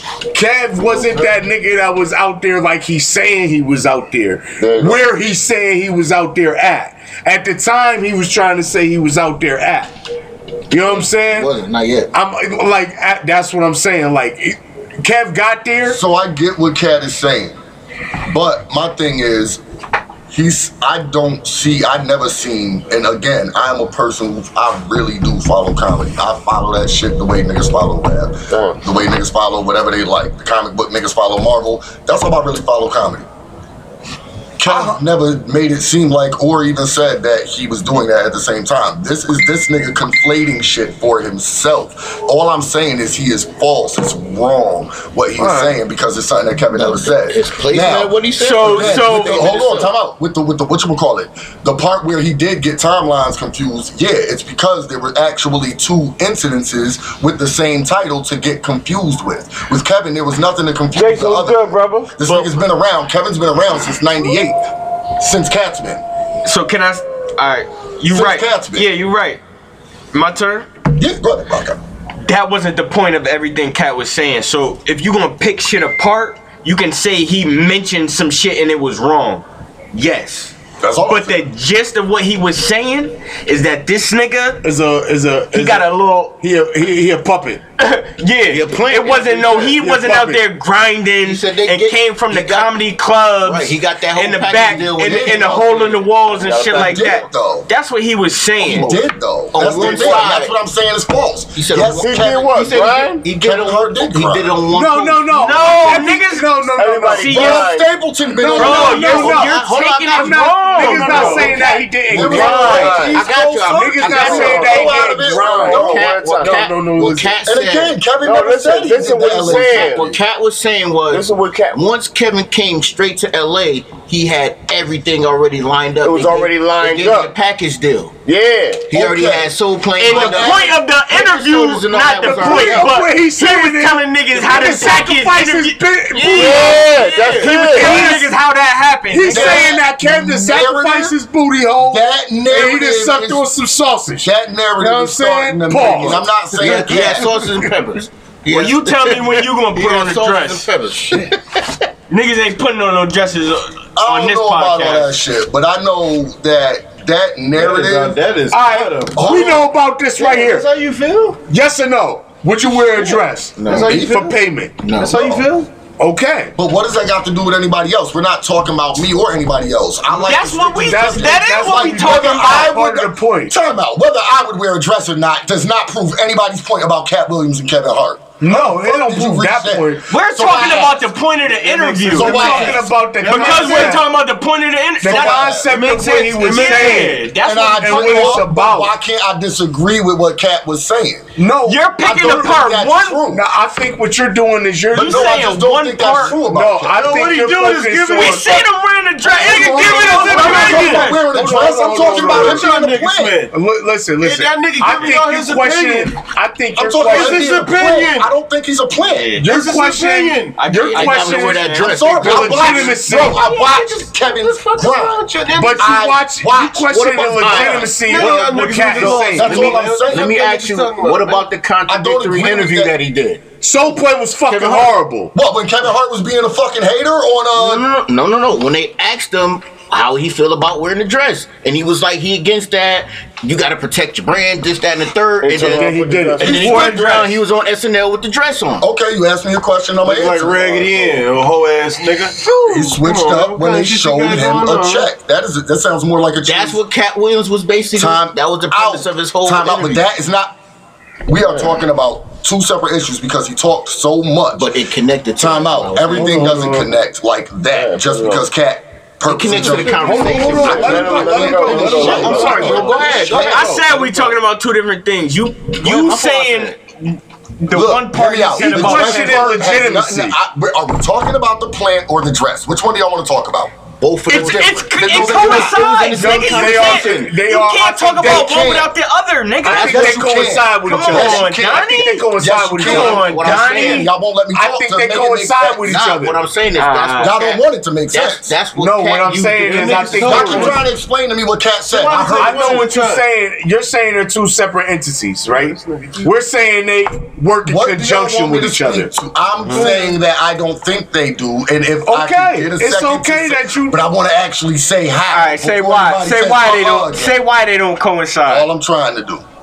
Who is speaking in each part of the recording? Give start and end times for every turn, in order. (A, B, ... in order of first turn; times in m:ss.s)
0:00.3-0:09.9 A
0:04.6-0:05.1 B
0:10.7-0:11.5 A
0:11.3-0:12.1 C
0:12.1-0:16.0 A
0:15.8-0:17.6 D
0:18.3-0:19.6 D
0:20.3-0:33.2 D
0:28.5-0:28.8 B
0:34.6-1:04.6 D
0:34.6-0:35.0 A
0:46.7-0:49.9 C
0:48.4-0:49.5 E
1:00.9-1:02.2 B
1:05.2-1:06.0 D
1:06.4-1:09.4 E
1:08.1-1:08.9 D
1:10.1-1:10.7 E
1:11.0-1:11.8 D
1:12.2-1:20.5 E
1:20.8-1:21.4 D
1:21.1-1:24.6 E
1:24.6-1:27.6 A
1:25.5-1:26.3 E
1:27.8-1:38.9 E
1:28.5-1:29.9 C
1:29.8-1:30.4 A
1:31.2-1:32.8 C
1:33.4-1:36.8 C
1:35.0-1:35.7 D
1:36.3-1:37.2 B
1:36.8-1:37.7 D
1:38.6-1:38.9 C
1:38.7-1:42.6 D
1:39.5-1:40.5 C
1:39.6-1:40.3 B
1:41.5-1:45.4 C
1:42.0-1:43.2 B
1:43.3-1:44.6 D
1:44.6-1:47.5 A
1:45.3-1:46.5 E
1:46.8-1:47.9 B
1:47.1-1:47.7 E
1:47.3-1:49.1 D
1:48.3-1:57.4 A
1:48.5-1:58.0 C
1:48.5-1:51.8 E
1:52.1-1:53.2 B
1:52.1-1:56.1 D
1:54.1-1:56.6 B
1:57.4-2:00.1 D
1:58.2-2:00.2 B
1:59.4-2:08.2 C
2:01.1-2:01.8 B
2:06.0-2:07.3 B
2:08.2-2:08.9 B
2:08.9-2:12.9 C
2:08.9-2:09.5 D
2:10.0-2:19.8 E
2:10.1-2:10.6 D
2:12.2-2:16.8 A
2:16.3-2:18.1 B
2:16.5-2:17.5 C
2:17.4-2:18.3 A
2:19.1-2:26.3 A
2:19.3-2:21.2 D
2:21.8-2:23.5 D
2:24.2-2:27.4 D
2:25.8-2:31.6 C
2:26.7-2:27.2 E
2:27.5-2:27.7 A
2:28.5-2:30.7 E
2:32.1-2:35.1 E
2:34.0-2:38.2 D
2:37.5-2:39.6 F
2:38.5-2:40.7 A
2:39.2-2:39.6 D
2:40.2-2:41.4 F
2:41.5-2:44.8 A
2:43.0-2:44.4 F
2:43.6-2:44.0 C
2:43.7-2:44.3 D
2:44.8-2:45.3 C
2:44.9-2:45.7 F
2:45.1-2:45.4 D
2:46.0-2:46.5 A
2:46.6-3:01.1 D
2:50.1-2:52.8 E
2:50.8-2:53.5 A
2:58.4-3:00.1 A
3:00.1-3:08.4 E
3:01.5-3:04.1 A
3:02.1-3:03.0 D
3:02.5-3:04.0 F
3:05.0-3:08.9 A
3:05.0-3:05.7 D
3:06.1-3:07.1 F
3:07.4-3:11.3 D
3:11.4-3:12.4 A
3:11.6-3:13.2 E
3:12.0-3:13.4 D
3:13.3-3:15.4 A
3:14.9-3:16.4 E
3:14.9-3:17.0 D
3:16.3-3:18.6 A
3:16.9-3:18.5 F
3:18.0-3:21.2 E
3:19.4-3:22.7 A
3:19.4-3:21.2 F
3:20.0-3:23.4 D
3:22.0-3:23.5 F
3:23.5-3:27.6 A
3:24.2-3:26.2 F
3:26.8-3:29.3 D
3:27.0-3:28.3 F
3:29.0-3:29.5 E
3:29.4-3:33.4 A
3:29.4-3:30.6 F
3:30.6-3:32.3 E
3:30.8-3:34.2 C
3:31.8-3:37.5 D
3:34.4-3:36.1 F
3:35.5-3:39.8 A
3:37.0-3:38.3 C
3:37.5-3:41.5 F
3:39.0-3:43.4 C
3:39.1-3:40.3 D
3:41.9-3:43.0 D
3:43.6-3:45.3 A
3:44.4-3:44.9 C
3:45.3-3:47.9 D
3:47.5-3:58.8 C
3:55.4-3:56.8 B
3:55.7-3:57.3 A
3:56.6-3:57.1 E
3:58.8-4:00.9 D
4:00.0-4:05.1 F
4:02.7-4:06.8 D
4:06.4-4:10.0 C
4:08.0-4:10.5 D
4:11.3-4:14.8 D
4:11.4-4:11.8 B
4:14.6-4:16.4 C
4:15.4-4:23.4 D
4:16.1-4:17.0 B
4:17.7-4:18.5 B
4:19.2-4:24.3 C
4:19.6-4:23.8 A
4:20.3-4:20.7 F
4:20.5-4:22.8 B
4:21.8-4:29.6 E
4:25.8-4:26.8 C
4:27.7-4:33.7 D
4:28.6-4:30.3 A
4:34.0-4:37.4 C
4:34.3-4:44.0 E
4:34.3-4:35.7 D
4:35.5-4:38.7 A
4:38.2-4:38.9 D
4:39.6-4:46.4 A
4:39.7-4:45.8 D
4:42.9-4:44.1 C
4:45.7-4:50.5 C
4:46.8-4:47.4 E
4:47.2-4:48.5 D
4:48.7-4:50.8 A
4:49.6-4:50.9 F
4:50.2-4:52.9 D
4:51.9-4:53.2 F
4:52.2-4:59.1 A
4:55.5-4:56.3 F
4:57.6-5:07.4 D
4:59.7-5:00.1 F
5:02.0-5:04.0 A
5:05.3-5:08.7 E
5:08.4-5:09.4 D